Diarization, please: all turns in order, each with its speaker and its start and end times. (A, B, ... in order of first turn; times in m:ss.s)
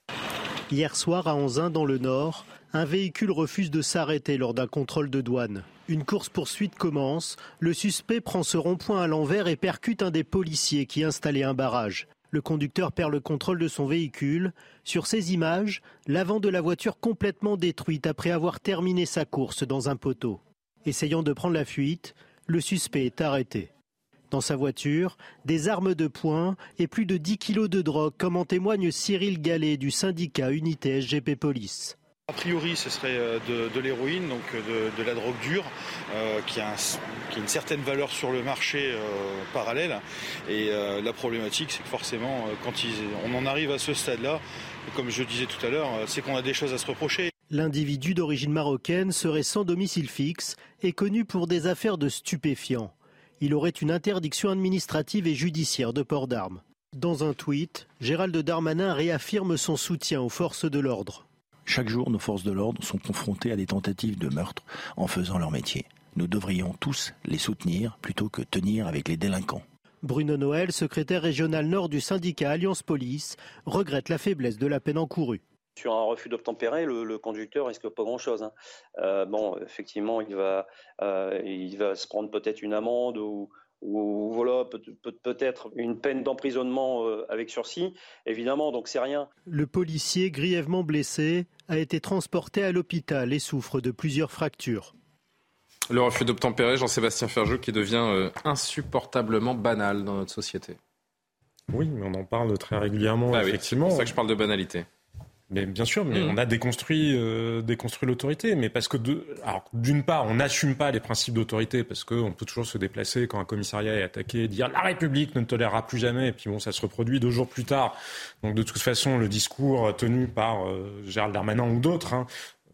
0:00.7-0:23.7 A
0:24.3-0:32.0 A
0:32.3-0:47.3 B
0:47.5-1:01.2 A
1:01.7-1:09.6 C
1:10.0-1:15.4 A
1:15.8-1:29.3 D
1:29.5-1:34.9 A
1:35.9-1:40.8 E
1:41.7-1:44.1 F
1:43.3-1:44.9 E
1:45.5-2:02.3 F
1:46.1-1:46.4 E